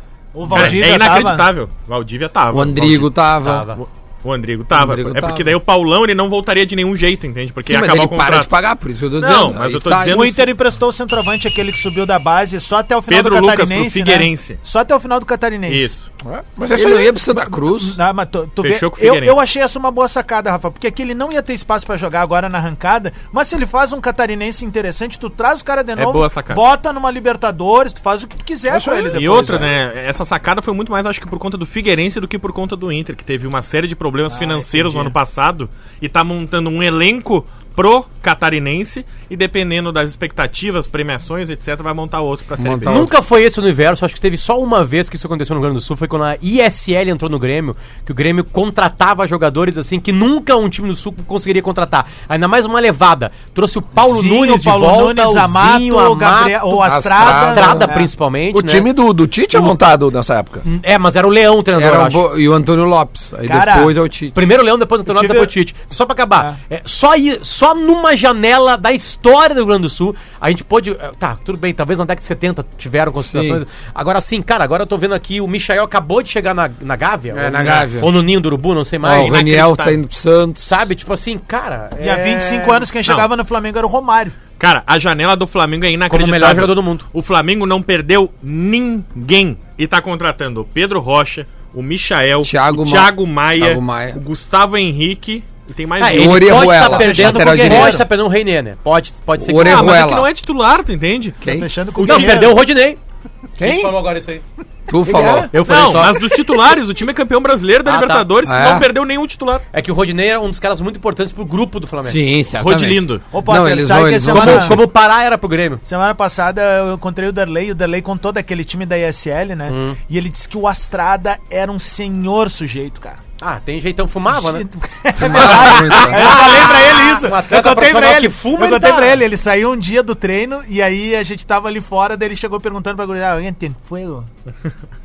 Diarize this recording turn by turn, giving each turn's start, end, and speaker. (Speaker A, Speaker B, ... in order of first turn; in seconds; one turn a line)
Speaker A: 0.3-1.5
Speaker B: 0.5-3.1
Speaker C: 2.5-3.7
Speaker D: 3.4-3.8
Speaker B: 3.8-8.5
Speaker C: 4.7-5.5
Speaker C: 7.6-10.2
Speaker B: 9.2-10.5
Speaker A: 10.1-15.9
Speaker B: 13.1-14.6
Speaker B: 15.7-16.1
Speaker E: 16.2-17.4
Speaker C: 16.7-18.0
Speaker A: 17.6-29.6
Speaker B: 18.6-19.4
Speaker B: 26.0-26.6
Speaker E: 28.7-29.7
Speaker B: 29.1-43.0
Speaker A: 34.3-35.1
Speaker C: 42.6-43.1
Speaker D: 42.9-58.9
Speaker A: 54.0-58.1
Speaker C: 56.8-57.9
Speaker E: 58.5-60.6
Speaker D: 60.6-62.2
Speaker C: 61.8-64.4
Speaker A: 63.4-63.9
Speaker D: 64.3-79.5
Speaker A: 65.0-65.5
Speaker C: 73.2-73.6
Speaker C: 77.3-78.1
Speaker B: 77.6-77.9
Speaker C: 79.0-80.8
Speaker B: 79.1-80.0
Speaker D: 80.6-82.8
Speaker A: 82.0-84.4
Speaker B: 84.6-96.7
Speaker D: 86.1-87.1
Speaker C: 92.4-94.2
Speaker D: 96.0-100.0
Speaker C: 96.1-98.0
Speaker A: 96.7-98.0
Speaker C: 99.4-100.3
Speaker B: 99.6-101.4
Speaker C: 101.4-101.7
Speaker A: 101.4-102.7
Speaker D: 102.0-103.0
Speaker E: 103.6-104.0
Speaker D: 103.6-104.4
Speaker C: 104.9-105.5
Speaker E: 105.1-105.4
Speaker D: 105.1-106.3
Speaker B: 105.6-109.6
Speaker D: 107.8-108.3
Speaker C: 108.4-108.9
Speaker D: 109.7-112.2
Speaker C: 112.0-114.8
Speaker B: 112.6-113.2
Speaker A: 113.3-114.8
Speaker D: 114.2-115.8
Speaker A: 115.8-123.2
Speaker D: 119.7-120.0
Speaker D: 123.4-124.6
Speaker A: 124.3-134.3
Speaker C: 125.2-126.5
Speaker D: 125.2-129.2